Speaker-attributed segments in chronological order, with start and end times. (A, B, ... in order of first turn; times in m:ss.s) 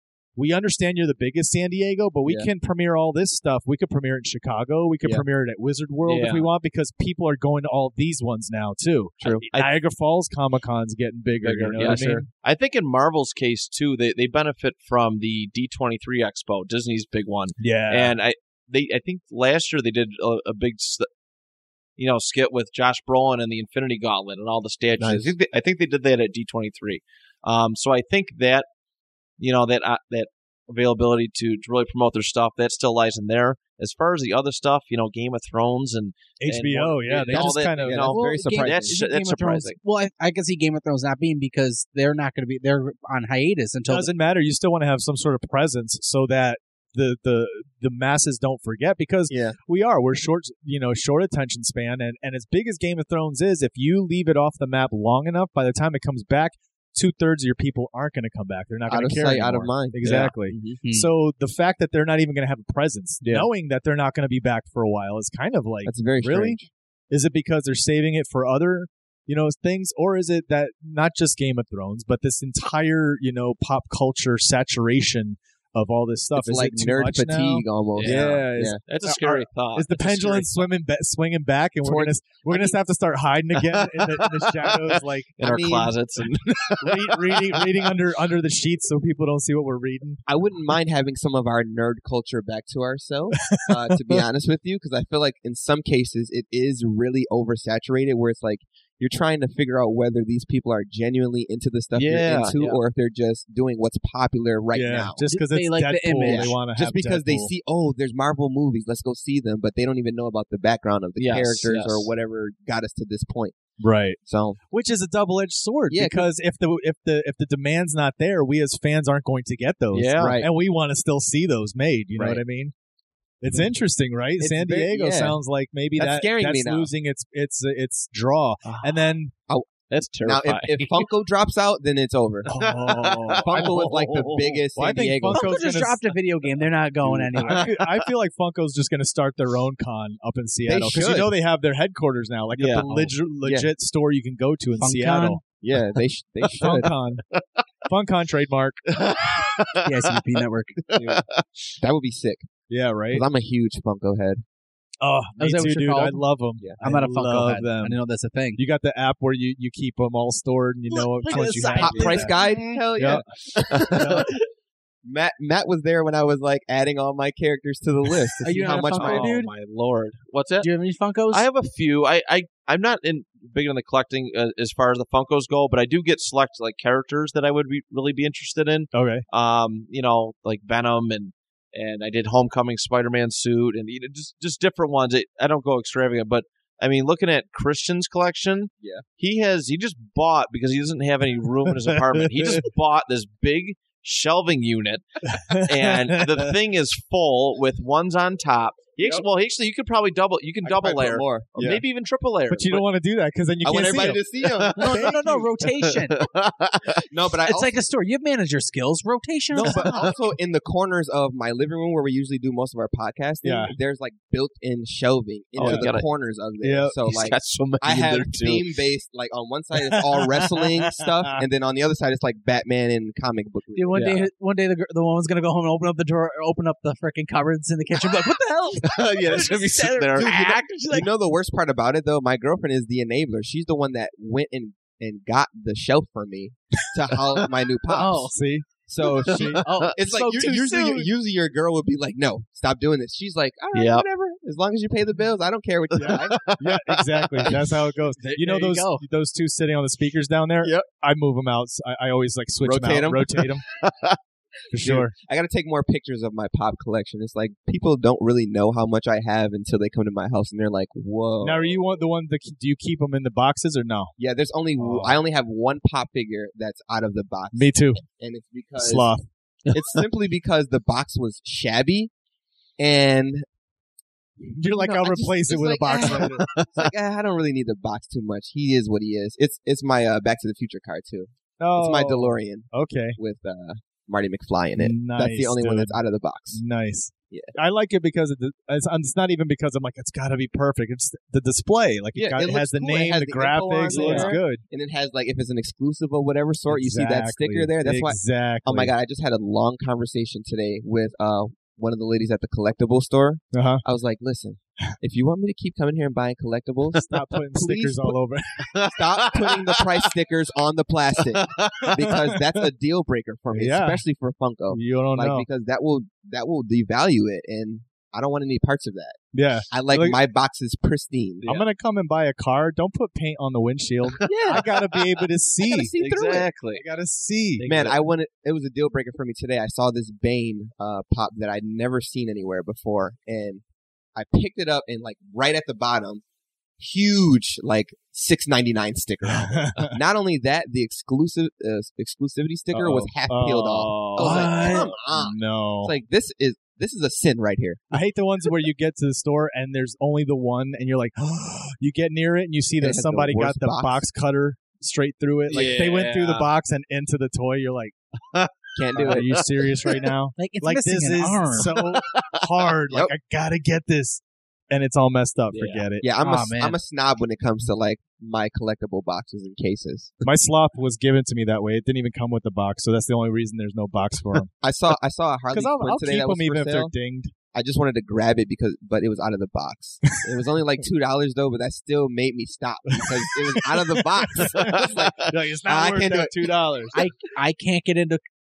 0:00.4-0:12.3 A
0:06.1-0:06.5 B
0:09.2-0:09.5 C
0:09.2-0:09.8 B
0:11.4-0:21.1 B
0:17.6-0:18.1 A
0:22.0-0:28.7 B
0:25.0-0:25.3 C
0:29.4-0:39.8 B
0:36.4-0:38.1 A
0:37.3-0:39.0 C
0:38.1-0:44.1 D
0:43.9-1:06.6 A
0:49.3-0:49.6 C
0:58.9-1:00.8 C
1:03.2-1:03.5 C
1:05.8-1:06.7 C
1:07.1-1:25.6 A
1:16.4-1:18.8 C
1:18.0-1:20.7 B
1:21.8-1:22.8 C
1:24.2-1:24.4 B
1:25.4-1:26.0 C
1:25.4-1:27.7 B
1:26.8-1:30.2 A
1:30.3-1:45.2 C
1:33.5-1:34.2 A
1:42.0-1:42.8 B
1:44.7-1:47.5 A
1:45.2-1:46.6 D
1:46.2-1:53.6 C
1:51.2-1:52.1 B
1:53.8-1:54.2 A
1:54.2-1:54.6 C
1:54.7-2:02.7 A
1:55.9-1:56.3 C
1:59.9-2:00.4 B
2:00.2-2:00.5 C
2:03.4-2:09.3 A
2:04.4-2:05.4 C
2:06.0-2:06.9 C
2:09.9-2:11.1 B
2:10.2-2:12.5 C
2:12.5-2:13.5 A
2:12.5-2:14.6 B
2:13.3-2:15.6 C
2:14.8-2:16.0 A
2:15.3-2:17.7 D
2:17.0-2:17.6 C
2:17.4-2:25.4 A
2:20.7-2:21.4 C
2:22.6-2:22.9 B
2:22.8-2:23.7 C
2:24.8-2:25.4 D
2:25.6-2:26.9 C
2:26.6-2:27.2 A
2:27.3-2:27.6 B
2:27.9-2:28.8 A
2:28.9-2:31.8 B
2:29.8-2:30.8 D
2:31.0-2:31.2 C
2:31.8-2:32.5 C
2:32.7-2:33.2 A
2:33.1-2:34.4 C
2:35.0-2:38.0 A
2:35.4-2:36.3 D
2:36.8-2:38.6 D
2:38.6-2:42.3 A
2:40.9-2:42.6 D
2:41.4-2:44.2 C
2:42.1-2:44.3 B
2:43.0-2:43.3 A
2:43.9-2:44.3 A
2:45.0-2:49.3 C
2:48.4-2:49.5 D
2:48.6-2:50.7 B
2:50.6-2:51.5 D
2:51.3-3:22.9 B
2:58.9-2:59.2 A
3:11.9-3:12.7 A
3:15.3-3:16.5 A
3:19.0-3:19.2 C
3:20.6-3:21.8 C
3:22.5-3:24.2 A
3:23.6-3:25.2 C
3:24.5-3:27.1 B
3:24.8-3:26.2 D
3:24.9-3:25.5 A
3:27.1-3:27.8 C
3:27.4-3:30.0 D
3:29.5-3:44.1 C
3:33.4-3:33.7 A
3:35.6-3:36.1 B
3:35.6-3:35.9 A
3:36.6-3:37.0 A
3:37.1-3:38.7 B
3:39.8-3:41.4 A
3:43.8-3:51.1 D
3:43.9-3:44.3 B
3:48.8-3:50.4 B
3:50.2-3:58.3 C
3:57.9-3:58.4 D
3:58.3-3:59.6 A
3:58.9-4:06.5 C
3:59.2-3:59.9 B
3:59.6-4:01.1 D
4:03.7-4:04.0 B
4:06.0-4:13.6 A
4:06.0-4:07.5 B
4:08.2-4:09.0 D
4:12.6-4:13.5 C
4:13.8-4:14.1 B
4:14.7-4:15.1 A
4:14.8-4:21.8 C
4:21.4-4:24.1 A
4:24.2-4:29.1 C
4:24.8-4:25.2 A
4:27.5-4:28.0 A
4:28.8-4:29.3 A
4:29.7-4:30.0 B
4:29.7-4:32.1 C
4:32.8-4:33.4 C
4:34.6-4:36.5 A
4:34.6-4:46.6 C
4:36.4-4:36.9 B
4:41.6-4:43.2 A
4:44.8-4:46.0 A
4:46.5-4:54.6 A
4:52.2-5:08.2 C
4:53.9-4:54.4 B
4:56.7-4:58.9 A
5:03.5-5:03.8 A
5:06.9-5:08.7 A
5:08.7-5:10.1 B
5:08.8-5:19.2 C
5:11.3-5:12.1 B
5:12.0-5:12.4 A
5:13.5-5:14.0 A
5:14.7-5:15.5 A
5:19.3-5:20.2 A
5:19.7-5:21.5 C
5:21.4-5:21.7 B
5:21.5-5:25.9 A
5:24.3-5:24.7 C
5:25.6-5:26.5 C
5:26.0-5:26.8 B
5:26.8-5:27.6 A
5:27.6-5:28.0 B
5:27.6-5:33.6 C
5:34.2-5:36.2 C
5:36.8-5:47.8 C
5:39.3-5:40.0 A
5:42.7-5:45.9 A
5:44.2-5:44.9 D
5:47.9-5:58.0 A
5:52.8-5:54.1 C
5:55.5-5:56.5 B
5:58.3-5:59.9 B
5:58.8-5:59.4 C
5:59.0-6:06.1 A
6:00.4-6:01.7 D
6:02.0-6:02.4 B
6:05.5-6:05.8 B
6:06.0-6:10.3 C
6:06.2-6:06.8 D
6:10.2-6:14.5 A
6:14.6-6:16.9 C
6:15.5-6:17.3 A
6:17.5-6:26.5 C
6:22.9-6:27.0 A
6:24.6-6:25.1 B
6:26.9-6:28.2 D